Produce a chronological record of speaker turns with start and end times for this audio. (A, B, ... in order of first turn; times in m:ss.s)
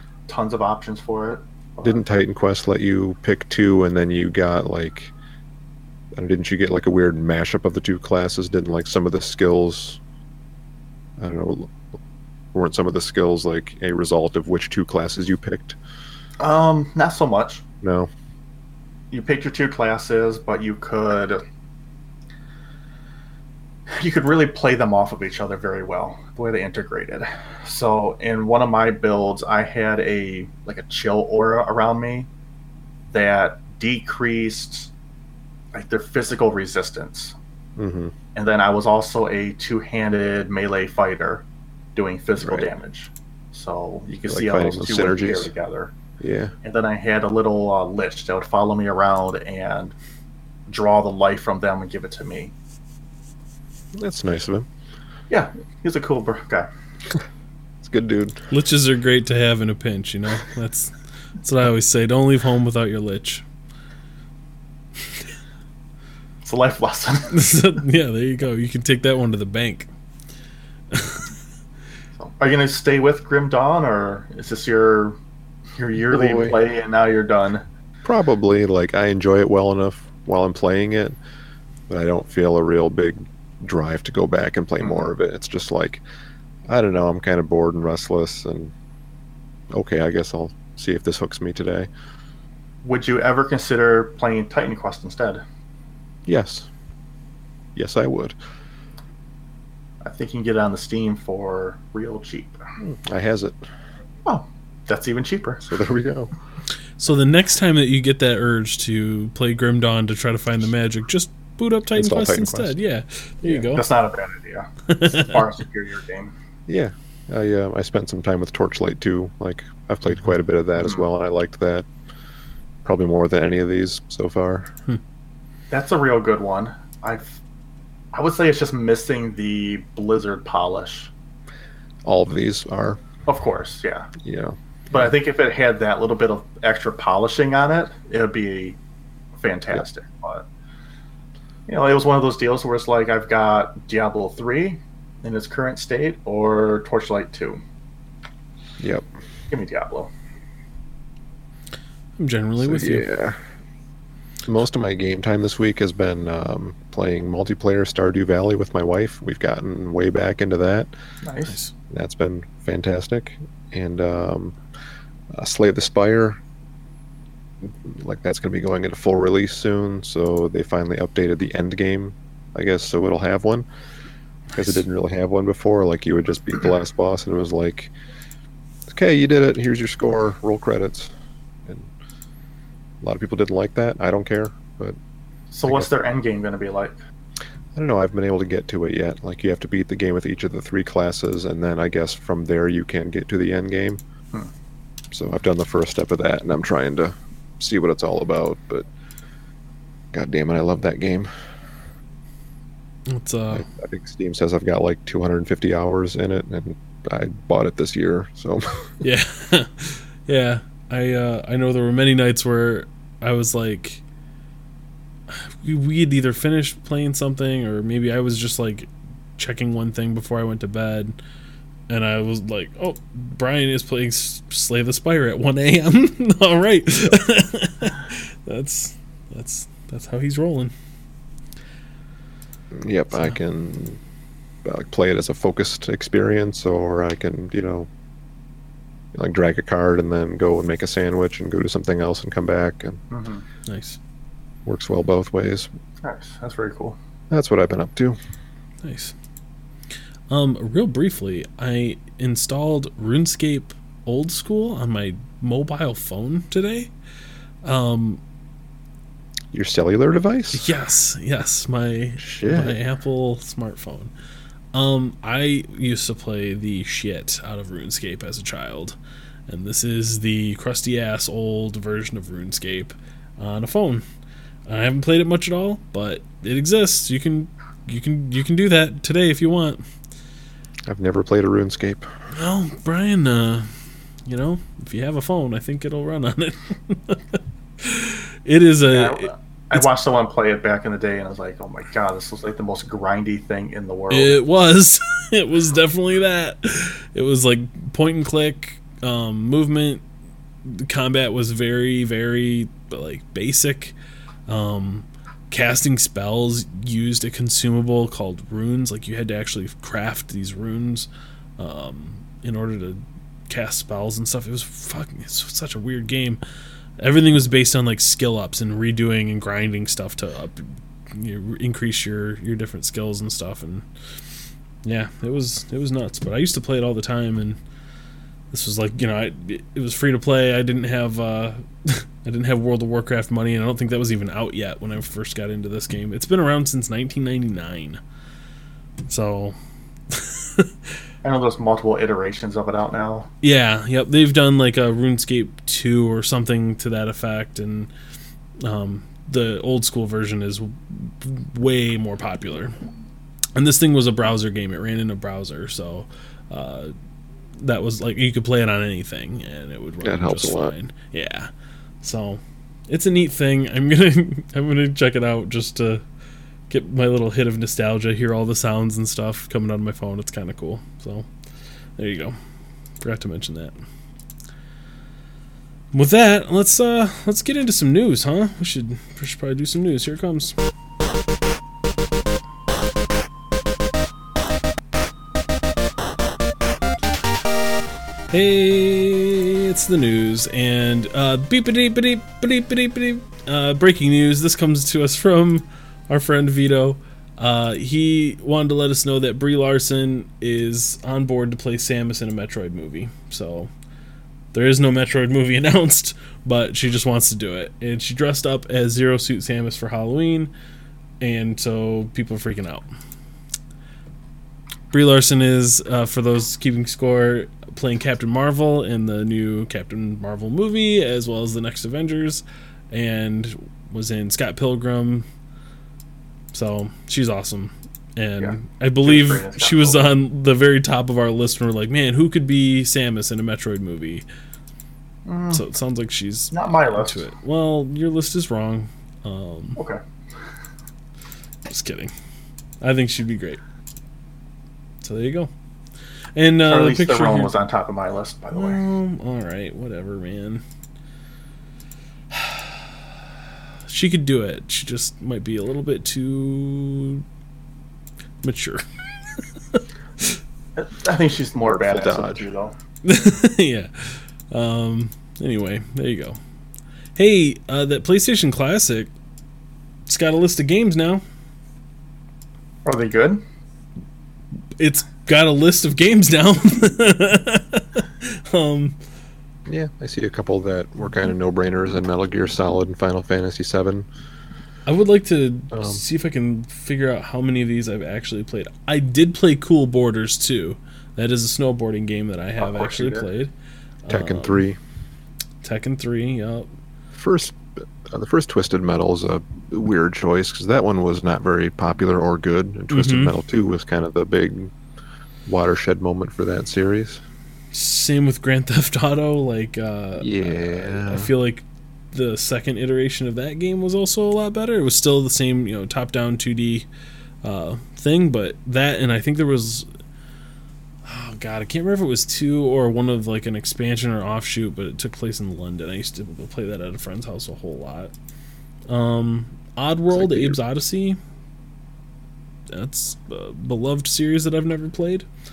0:00.3-0:02.2 A
0:01.8-0:05.1 B
0:06.2-0:10.0 B
0:11.2-0:11.8 B
0:12.5-0:15.8 B
0:16.4-0:17.6 A
0:17.8-0:18.1 B
0:19.1-0:21.4 A
0:23.9-0:32.3 A
0:33.1-0:34.9 A
0:35.7-0:37.3 A
0:37.8-0:38.1 B
0:38.3-0:41.4 A
0:42.0-0:45.9 A
0:42.4-0:42.7 B
0:44.2-0:45.5 B
0:46.2-0:46.5 B
0:46.6-0:49.9 A
0:50.7-0:52.5 A
0:53.9-0:54.7 B
0:55.3-0:56.7 A
0:57.8-0:58.4 B
0:58.5-1:03.4 C
1:06.4-1:07.4 A
1:07.3-1:09.9 C
1:10.9-1:11.3 C
1:12.2-1:15.2 A
1:15.7-1:17.6 A
1:16.1-1:16.6 B
1:18.0-1:21.2 B
1:21.9-1:26.0 B
1:24.8-1:25.1 A
1:26.7-1:28.7 B
1:29.7-1:31.9 B
1:32.8-1:35.4 A
1:36.3-1:36.7 B
1:37.7-1:38.4 B
1:40.0-1:42.6 A
1:42.8-1:43.6 B
1:44.2-1:45.6 A
1:45.6-1:46.3 B
1:47.0-1:53.8 C
1:51.9-1:52.8 B
1:53.7-1:56.3 A
1:54.9-1:55.4 C
1:56.7-2:01.9 B
2:00.8-2:01.0 A
2:02.8-2:04.7 B
2:05.7-2:07.4 A
2:08.1-2:11.1 A
2:12.0-2:13.0 B
2:13.3-2:14.1 A
2:14.2-2:14.6 B
2:14.9-2:18.8 A
2:19.4-2:20.5 A
2:21.7-2:27.6 A
2:28.8-2:29.1 B
2:29.5-2:30.1 A
2:32.2-2:33.1 C
2:32.6-2:33.4 B
2:34.4-2:40.9 B
2:41.2-2:41.6 A
2:41.9-2:44.6 B
2:45.3-2:46.4 B
2:47.6-2:53.6 B
2:54.6-2:57.9 B
2:58.9-3:01.1 B
3:01.6-3:01.9 B
3:03.0-3:05.0 B
3:05.5-3:07.0 A
3:07.7-3:14.0 B
3:15.1-3:18.9 B
3:20.1-3:21.4 B
3:23.1-3:23.6 C
3:23.5-3:29.0 B
3:29.0-3:34.0 C
3:35.3-3:41.2 C
3:41.9-3:50.7 C
3:52.7-3:54.0 B
3:54.6-3:57.9 B
3:59.1-4:03.0 B
4:03.1-4:03.4 A
4:03.6-4:04.0 C
4:04.6-4:05.7 B
4:06.0-4:07.0 A
4:07.3-4:08.2 B
4:08.8-4:09.1 C
4:10.3-4:16.9 C
4:17.6-4:18.2 C
4:19.5-4:20.7 B
4:20.5-4:24.1 C
4:22.2-4:22.8 B
4:24.7-4:29.0 C
4:29.5-4:34.0 C
4:34.7-4:39.8 C
4:40.9-4:42.1 B
4:42.3-4:43.7 C
4:44.2-4:49.9 C
4:48.9-4:54.4 A
4:54.1-5:00.0 C
5:00.6-5:03.9 C
5:04.5-5:16.4 C
5:17.0-5:23.8 C
5:24.8-5:27.6 C
5:28.5-5:38.0 C
5:39.1-5:39.6 C
5:40.1-5:40.9 C
5:41.2-5:43.3 A
5:43.4-5:47.9 C
5:48.6-5:52.8 C
5:53.5-5:56.9 C
5:57.6-6:01.5 C
6:00.0-6:00.7 B
6:02.0-6:06.0 C
6:06.7-6:11.3 C
6:12.0-6:12.4 C
6:13.0-6:13.7 C
6:15.9-6:20.6 C
6:28.3-6:43.7 C
6:44.5-6:50.5 C
6:51.2-6:52.8 C
6:54.9-7:05.2 C
7:06.5-7:14.2 C
7:08.4-7:10.0 A
7:15.2-7:15.6 A
7:15.5-7:19.8 C
7:16.5-7:17.2 A
7:21.7-7:22.1 C
7:22.8-7:23.6 C
7:25.0-7:25.5 C
7:26.3-7:27.5 C
7:26.6-7:28.8 A
7:28.5-7:30.6 C
7:32.3-7:32.9 C
7:33.9-7:37.2 C
7:38.4-7:40.4 C
7:40.8-7:42.7 A
7:41.7-7:42.5 B
7:43.0-7:46.4 C
7:47.2-7:49.1 C
7:50.0-7:51.2 C
7:52.8-7:53.4 A
7:54.8-7:59.0 C
7:59.7-8:04.1 B
8:04.8-8:13.5 C
8:05.7-8:06.0 B
8:12.6-8:13.3 A
8:14.0-8:14.6 C
8:14.1-8:14.8 B
8:15.6-8:16.7 C
8:17.1-8:24.7 B
8:22.9-8:23.3 C
8:25.4-8:27.2 B
8:27.7-8:36.9 C
8:30.2-8:31.3 B
8:37.4-8:39.9 C
8:41.0-8:48.1 C
8:48.9-8:51.2 C
8:50.1-8:50.6 B
8:52.7-8:55.2 C